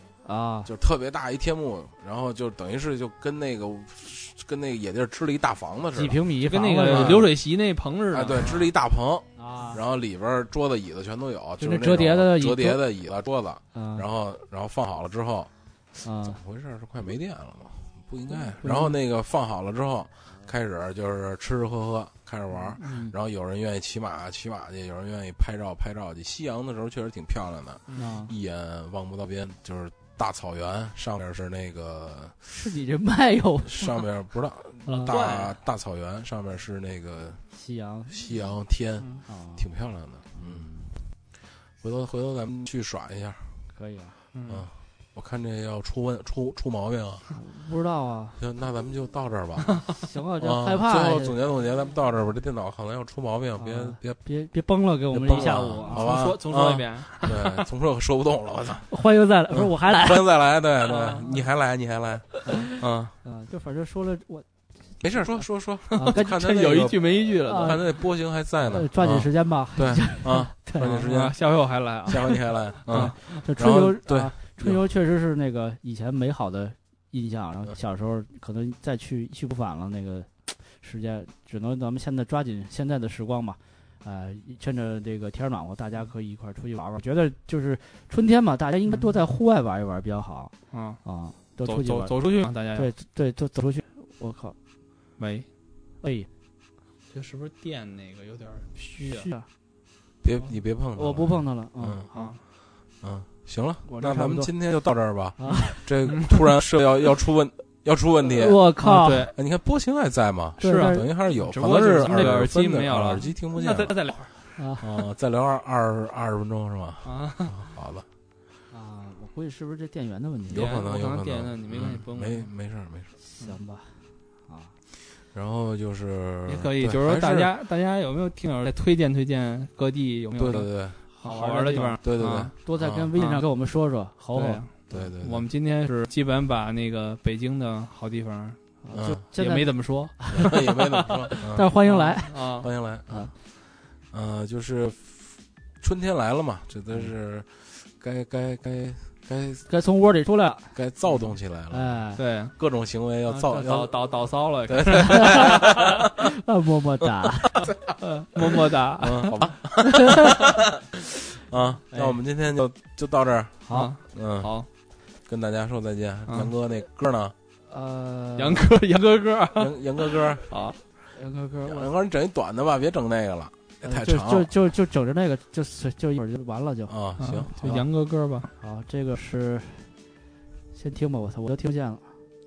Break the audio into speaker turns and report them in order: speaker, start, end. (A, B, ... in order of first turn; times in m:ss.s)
0:00.2-0:00.7 A
0:00.6-0:06.2 B
0:06.0-0:07.3 A
0:06.4-0:08.6 C
0:06.9-0:07.2 B
0:08.1-0:15.5 B
0:09.4-0:09.8 A
0:11.6-0:12.8 A
0:13.7-0:14.0 A
0:16.0-0:16.4 A
0:16.2-0:32.5 B
0:18.6-0:18.9 A
0:22.8-0:23.1 A
0:28.0-0:28.3 A
0:32.5-0:34.0 A
0:33.6-0:37.4 B
0:34.9-0:35.1 A
0:34.9-0:35.6 C
0:37.5-0:38.2 A
0:38.1-0:40.7 B
0:39.3-0:39.6 A
0:40.3-0:40.9 A
0:41.8-0:43.5 B
0:43.7-0:44.1 A
0:44.3-0:44.7 C
0:44.5-0:47.3 B
0:47.3-0:48.4 A
0:48.4-0:54.2 B
0:50.0-0:51.4 A
0:53.6-0:56.1 A
0:55.1-0:58.9 B
0:55.8-0:57.6 C
0:58.9-1:00.2 A
0:59.5-1:03.1 B
1:00.8-1:01.5 C
1:02.5-1:07.8 A
1:05.0-1:11.4 B
1:06.1-1:07.8 C
1:08.6-1:10.9 A
1:10.8-1:13.4 C
1:12.0-1:14.8 B
1:12.9-1:30.5 A
1:30.7-1:31.0 C
1:31.0-1:32.2 A
1:31.6-1:32.9 C
1:32.7-1:34.6 A
1:35.2-1:35.5 C
1:36.0-1:36.3 A
1:37.1-1:39.3 C
1:38.8-1:39.5 A
1:40.2-1:42.0 B
1:40.9-1:42.3 A
1:42.1-1:42.4 C
1:43.0-1:48.6 B
1:43.8-1:44.5 A
1:45.4-1:45.8 A
1:48.2-1:49.3 A
1:48.8-1:49.3 C
1:49.3-1:54.0 B
1:50.6-1:51.0 A
1:50.6-1:54.4 C
1:54.6-1:54.9 A
1:54.8-1:58.0 B
1:57.0-1:57.6 C
1:58.7-2:00.7 A
2:00.5-2:03.1 B
2:00.5-2:02.5 C
2:03.2-2:04.7 A
2:05.3-2:07.5 B
2:06.4-2:12.5 C
2:10.3-2:11.0 B
2:11.2-2:12.0 A
2:12.0-2:13.1 B
2:12.6-2:14.6 A
2:13.2-2:13.4 C
2:14.3-2:18.6 C
2:14.9-2:15.4 B
2:18.8-2:20.6 A
2:18.9-2:19.2 B
2:19.3-2:22.7 C
2:20.3-2:21.7 B
2:21.2-2:23.3 A
2:22.6-2:23.3 B
2:24.1-2:29.7 B
2:29.7-2:30.7 A
2:30.7-2:32.0 B
2:31.7-2:32.2 A
2:32.2-2:32.5 C
2:32.6-2:34.1 B
2:33.3-2:36.0 C
2:34.6-2:36.1 B
2:35.1-2:37.7 A
2:38.0-2:39.5 C
2:39.0-2:44.5 B
2:39.8-2:40.4 A
2:41.9-2:42.2 A
2:43.7-2:44.7 C
2:45.3-2:47.3 B
2:47.7-2:48.6 A
2:48.4-2:50.8 C
2:49.6-2:50.5 B
2:51.1-2:51.9 A
2:51.6-2:54.5 B
2:53.8-2:56.9 A
2:56.9-2:57.5 B
2:57.2-2:58.5 C
2:57.6-2:57.9 A
2:58.6-2:59.9 A
3:00.7-3:02.1 A